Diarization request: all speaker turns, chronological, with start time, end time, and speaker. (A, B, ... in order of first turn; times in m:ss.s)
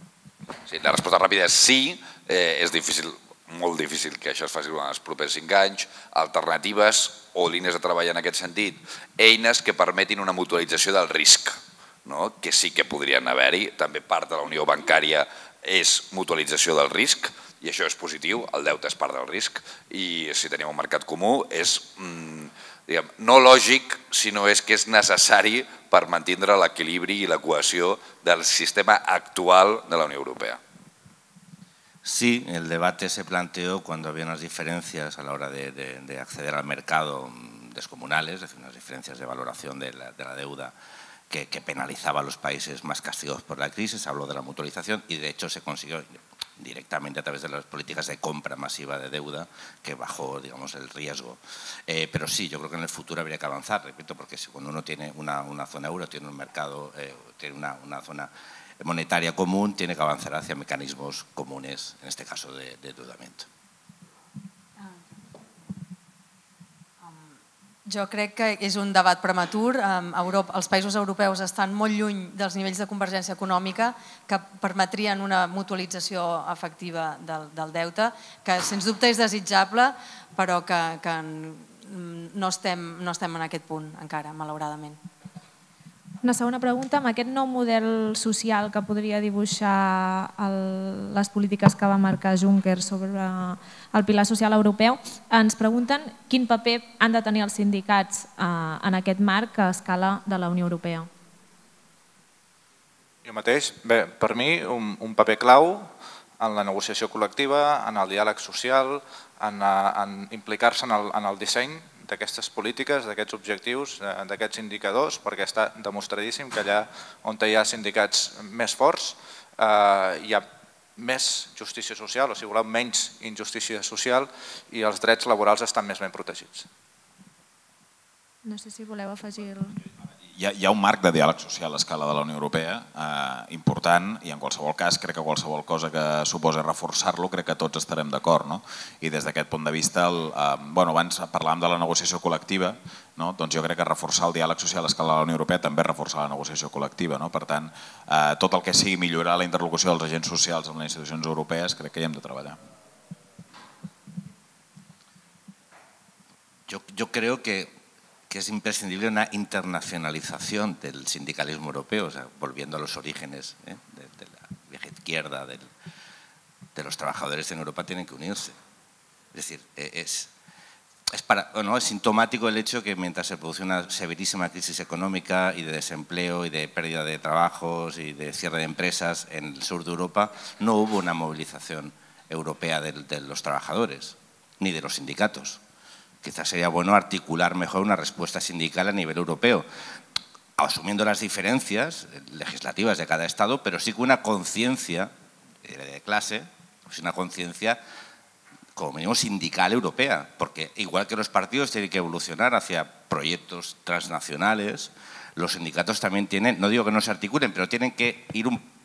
0:00.7-0:30.6 A
0:32.0-0:40.7 B
0:41.3-0:58.3 B
0:58.8-1:03.5 B
1:07.9-1:25.0 C
1:26.2-1:41.1 D
1:43.2-2:00.4 E
2:01.0-2:06.7 E
2:08.4-2:09.8 D
2:10.3-2:32.6 F
2:36.7-2:37.7 B
2:38.3-2:45.7 B
2:46.8-2:48.5 B
2:49.3-2:50.3 B
2:51.1-3:05.6 B
3:06.2-3:09.7 B
3:10.6-3:15.1 B
3:15.6-3:17.8 B
3:18.8-3:28.7 B